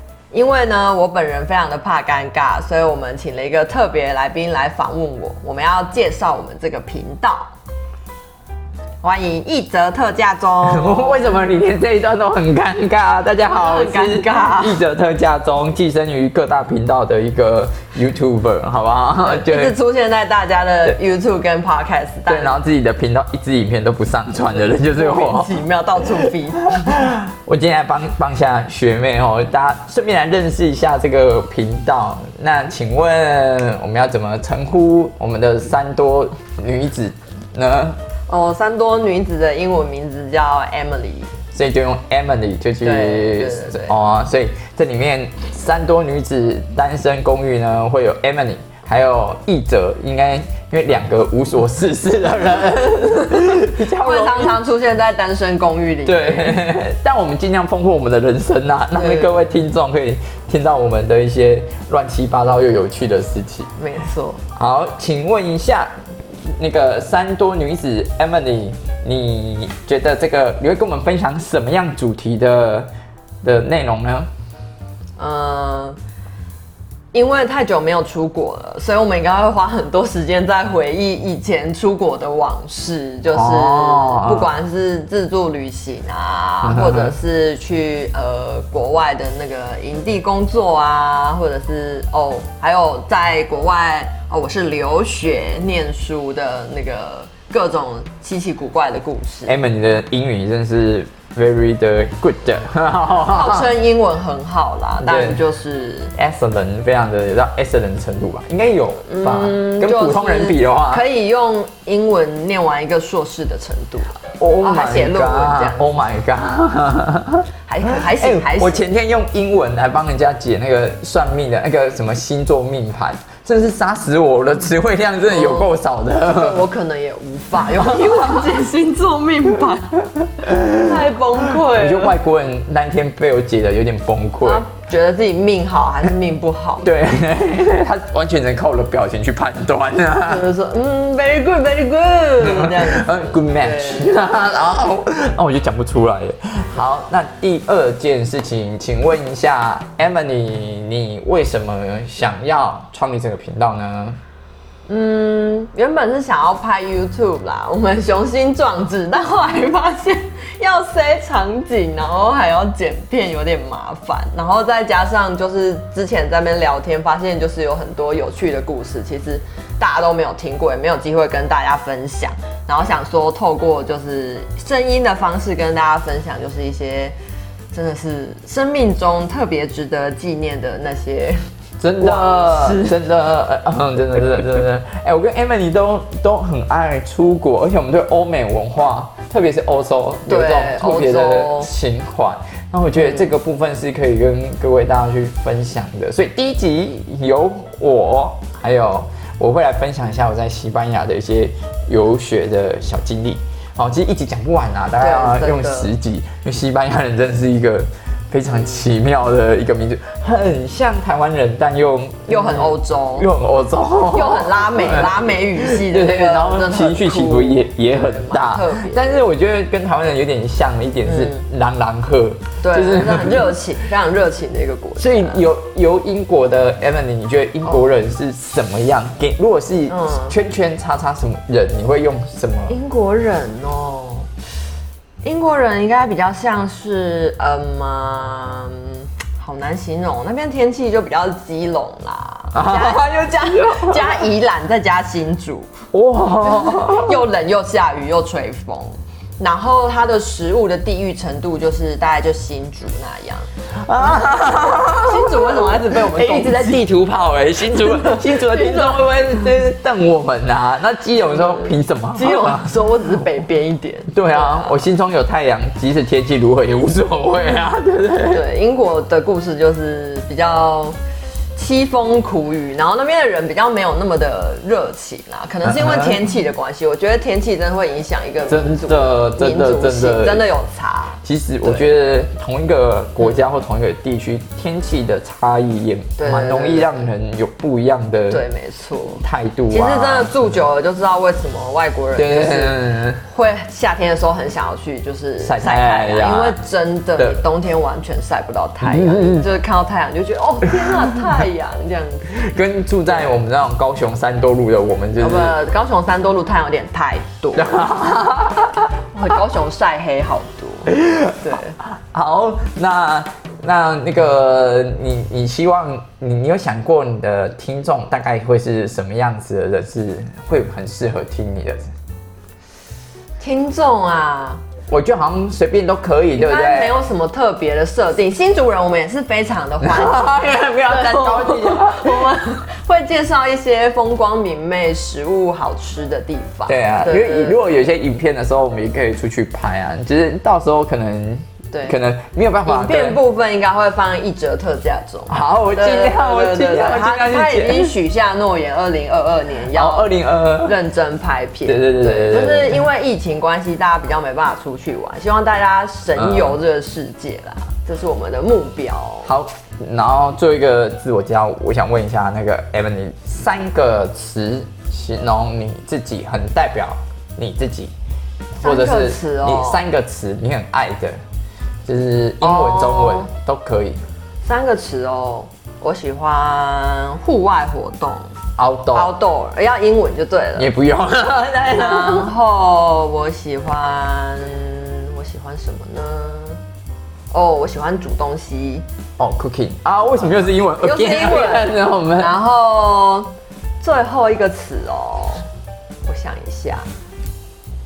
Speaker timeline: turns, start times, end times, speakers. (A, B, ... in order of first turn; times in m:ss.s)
0:00.3-0:07.5 A
0:09.0-0:11.3 A
0:10.6-0:19.8 B
0:13.5-0:14.8 A
0:19.2-0:22.6 A
0:22.3-0:25.6 B
0:24.9-0:27.1 A
0:26.8-0:38.0 B
0:38.3-0:41.3 A
0:41.5-0:54.5 B
0:42.8-0:44.0 A
0:53.6-0:56.6 A
0:56.0-1:03.7 B
0:58.9-0:59.4 A
1:03.8-1:04.4 A
1:04.6-1:05.9 B
1:06.6-1:12.9 B
1:13.4-1:14.3 B
1:15.2-1:16.0 A
1:17.1-1:39.6 A
1:23.3-1:24.5 B
1:26.6-1:27.1 B
1:39.5-1:43.7 B
1:43.2-1:46.1 A
1:45.0-1:45.4 B
1:46.2-1:51.0 B
1:49.1-1:55.9 A
1:54.4-1:57.4 B
1:57.7-1:58.9 A
1:58.0-2:06.6 B
2:05.3-2:05.7 A
2:06.2-2:12.2 A
2:07.7-2:08.5 B
2:10.4-2:11.0 B
2:11.6-2:14.6 B
2:14.4-2:16.9 A
2:16.8-2:20.5 B
2:20.2-2:24.3 A
2:22.4-2:34.2 B
2:34.9-2:57.2 A
2:57.7-3:01.4 A
3:01.8-3:43.5 B
3:02.0-3:02.9 A
3:10.3-3:11.7 A
3:13.0-3:13.3 A
3:25.0-3:25.9 A
3:32.3-3:33.3 A
3:34.1-3:39.2 A
3:41.0-3:41.4 A
3:42.6-3:45.4 A
3:45.0-3:52.8 B
3:49.9-3:50.4 A
3:52.7-3:54.3 A
3:55.2-4:05.7 A
4:02.5-4:04.2 B
4:05.9-4:07.2 B
4:06.4-4:13.5 A
4:13.8-4:22.7 B
4:14.0-4:16.8 A
4:17.7-4:19.2 A
4:21.3-4:24.8 A
4:24.1-4:28.4 B
4:28.3-4:31.0 A
4:31.6-4:41.9 A
4:35.6-4:36.2 B
4:38.5-4:40.4 B
4:41.2-4:48.4 B
4:46.2-4:47.1 A
4:48.3-5:02.3 A
4:49.2-4:50.5 B
4:52.2-4:53.2 B
4:55.4-4:56.6 B
4:58.8-4:59.4 B
5:00.8-5:01.1 B
5:02.3-5:05.6 B
5:05.2-5:07.8 A
5:07.6-5:08.9 B
5:09.1-5:11.8 A
5:10.9-5:21.9 B
5:23.4-5:24.6 A
5:24.9-5:27.0 B
5:26.4-5:37.6 A
5:29.8-5:32.3 B
5:36.7-5:43.2 B
5:41.7-5:42.0 A
5:42.7-5:59.3 A
5:45.3-5:47.9 B
5:49.7-5:50.8 B
5:51.7-5:52.8 B
5:56.2-5:56.6 B
5:59.2-6:07.9 B
6:08.6-6:09.8 A
6:08.6-6:11.2 B
6:11.9-6:14.0 B
6:12.4-6:13.3 A
6:14.4-6:18.3 A
6:18.6-6:19.1 B
6:18.9-6:20.7 A
6:20.6-6:22.3 B
6:21.7-6:26.6 A
6:27.3-6:28.8 A
6:29.2-6:32.3 B
6:30.6-6:33.3 A
6:33.8-6:35.5 A
6:36.0-6:36.9 A